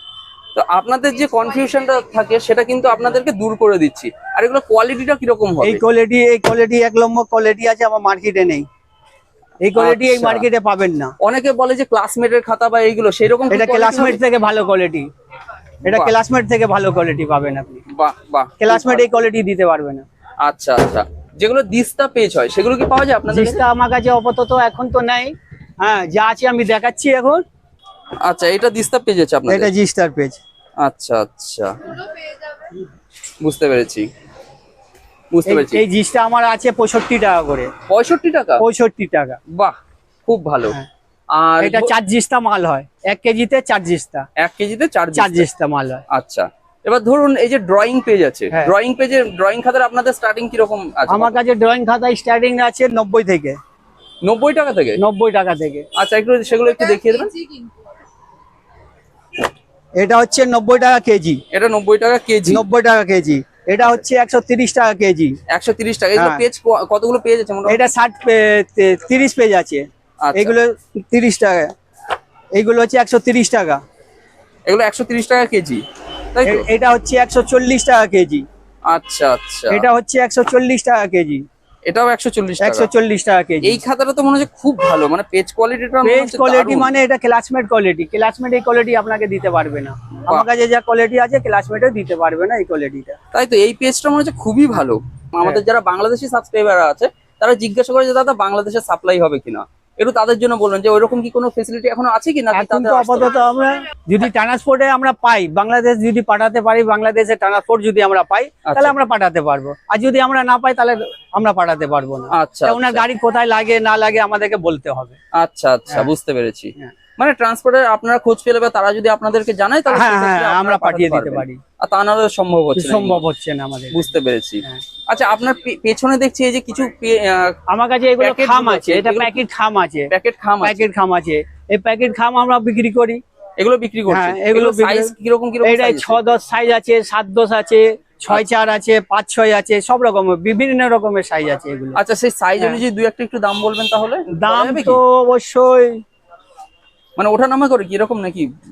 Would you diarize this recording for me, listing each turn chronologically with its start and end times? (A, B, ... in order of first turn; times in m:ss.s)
0:00.5-0:05.8 A
0:05.6-0:08.6 B
0:09.6-0:11.1 B
0:09.7-0:10.4 A
0:11.2-0:14.2 A
0:13.5-0:15.1 B
0:15.8-0:17.8 B
0:15.8-0:16.1 A
0:17.9-0:19.0 A
0:18.6-0:20.0 B
0:20.4-0:23.6 A
0:23.3-0:27.4 B
0:28.2-0:29.7 A
0:29.5-0:30.4 B
0:30.8-0:32.0 A
0:33.4-0:34.1 A
0:35.3-0:35.8 A
0:35.4-0:37.7 B
0:37.9-0:38.6 A
0:38.6-0:39.4 B
0:39.5-0:40.8 A
0:41.3-0:41.9 A
0:41.6-0:44.2 B
0:44.4-0:45.5 A
0:45.1-0:46.0 B
0:46.1-0:51.4 A
0:51.1-0:53.6 B
0:54.2-0:55.0 A
0:55.0-0:55.9 B
0:56.0-0:57.5 A
1:00.0-1:01.4 B
1:01.5-1:02.6 A
1:02.4-1:05.4 B
1:05.5-1:07.8 A
1:06.1-1:06.4 B
1:07.7-1:11.7 B
1:10.2-1:10.5 A
1:12.5-1:13.8 B
1:14.6-1:15.8 A
1:16.3-1:16.6 A
1:16.4-1:18.4 B
1:18.9-1:19.8 A
1:19.7-1:21.4 B
1:21.9-1:22.9 A
1:22.6-1:23.8 B
1:23.6-1:26.9 A
1:26.0-1:33.2 B
1:33.3-1:43.4 A
1:42.5-1:55.1 B
1:48.6-1:48.9 A
1:52.3-1:53.0 A
1:55.3-2:03.2 A
1:59.9-2:01.6 B
2:02.8-2:04.0 B
2:03.9-2:07.6 A
2:07.7-2:10.1 B
2:08.2-2:09.4 A
2:10.1-2:10.8 A
2:10.6-2:13.2 B
2:13.6-2:16.2 A
2:14.1-2:22.0 B
2:21.9-2:25.0 A
2:24.4-2:26.0 B
2:27.2-2:28.5 A